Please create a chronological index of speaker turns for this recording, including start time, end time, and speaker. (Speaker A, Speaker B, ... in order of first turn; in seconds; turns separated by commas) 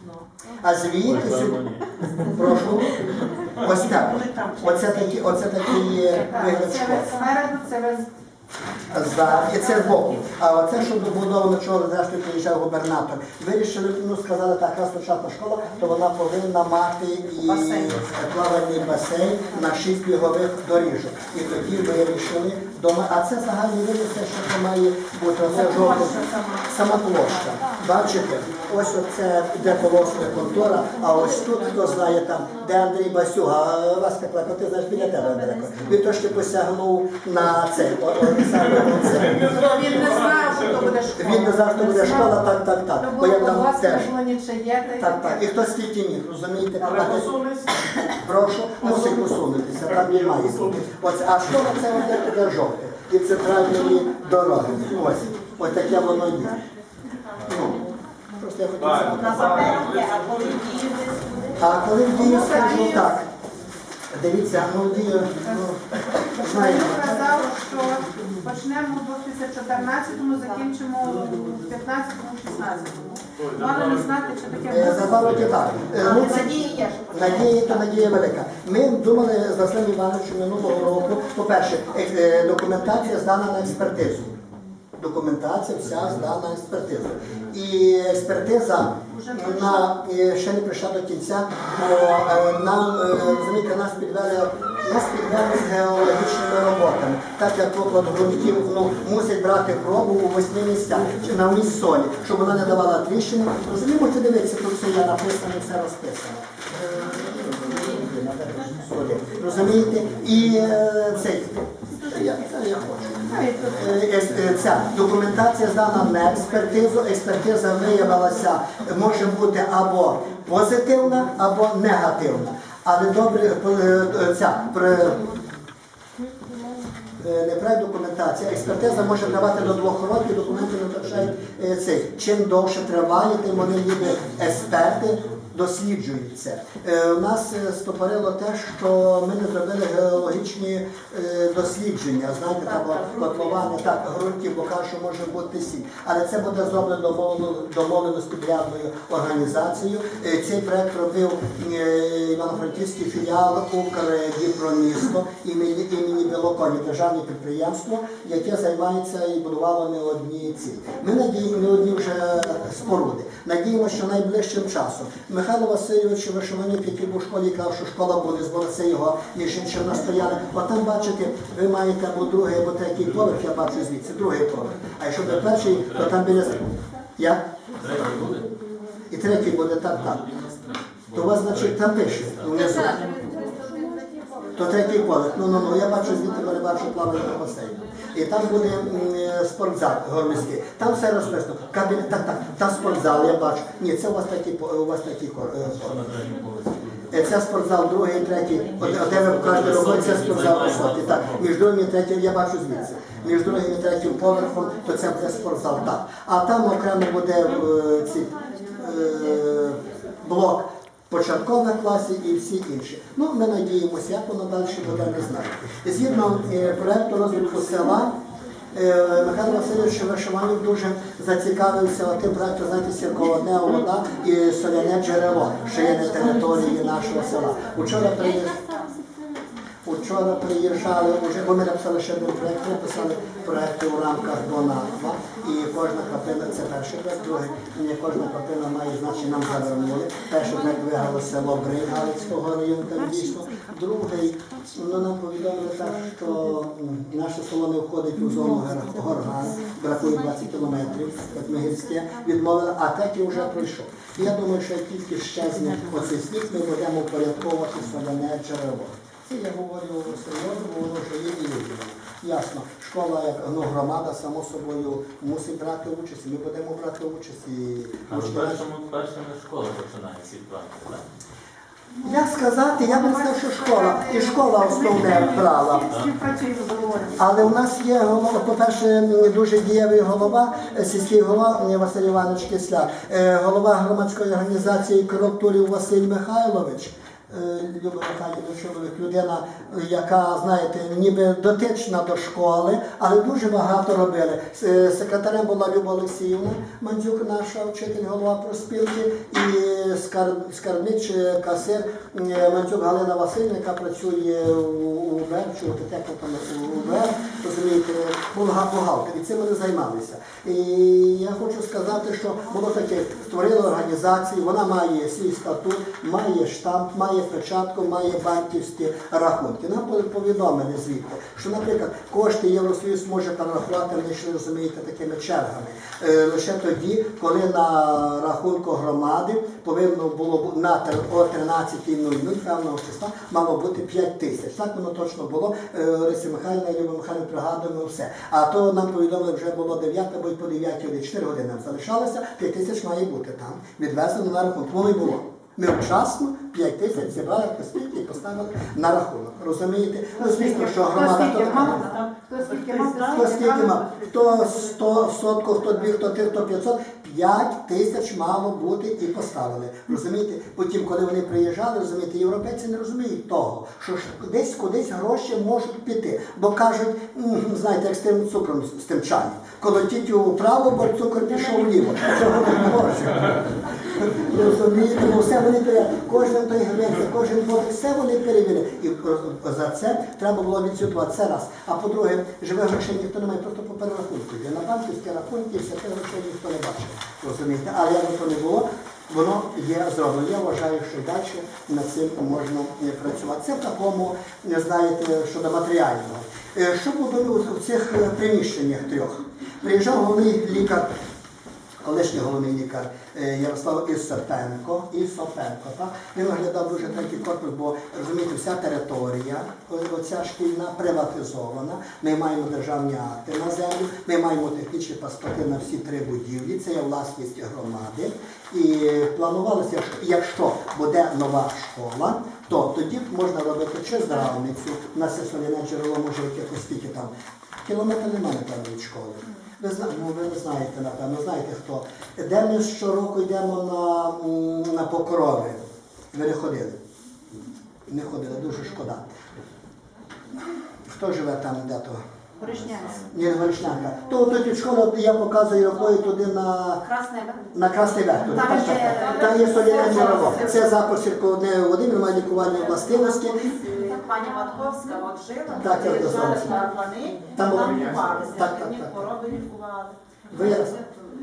Speaker A: 0.6-3.0, Speaker B: 1.0-2.3, Speaker A: 3.5-7.2, Speaker C: 6.3-8.1, Speaker A: 8.9-39.6, Speaker C: 9.2-10.0, Speaker C: 39.4-42.4, Speaker A: 41.1-44.1, Speaker C: 43.0-45.4, Speaker A: 45.0-47.5, Speaker A: 48.0-56.6, Speaker A: 57.5-57.8, Speaker A: 58.4-59.8, Speaker D: 59.1-61.6, Speaker A: 61.6-63.2, Speaker C: 62.1-63.2, Speaker A: 64.1-67.4, Speaker C: 66.3-75.8, Speaker A: 74.7-84.3, Speaker D: 76.0-77.1, Speaker A: 85.0-125.3, Speaker C: 89.1-89.9, Speaker C: 113.3-113.7, Speaker A: 127.2-177.5, Speaker B: 175.5-176.6, Speaker B: 177.8-178.5, Speaker A: 179.1-180.2, Speaker B: 180.1-182.9, Speaker A: 181.1-183.1, Speaker A: 184.5-196.1, Speaker B: 195.9-197.0, Speaker A: 197.1-218.2, Speaker B: 199.1-201.2, Speaker A: 218.7-228.6, Speaker A: 229.8-268.7, Speaker B: 268.1-271.0, Speaker A: 272.0-275.9, Speaker C: 272.8-277.2, Speaker A: 277.2-351.9, Speaker C: 350.4-353.8, Speaker A: 353.1-400.9, Speaker A: 401.8-427.1, Speaker A: 427.6-435.6, Speaker A: 436.1-436.8, Speaker A: 437.9-439.1, Speaker A: 440.9-442.0, Speaker C: 442.4-443.0, Speaker A: 443.1-446.9, Speaker A: 447.5-453.4, Speaker C: 448.4-450.2, Speaker D: 449.0-450.4, Speaker D: 453.4-459.9, Speaker A: 455.5-456.6, Speaker A: 457.3-459.1, Speaker A: 460.3-460.8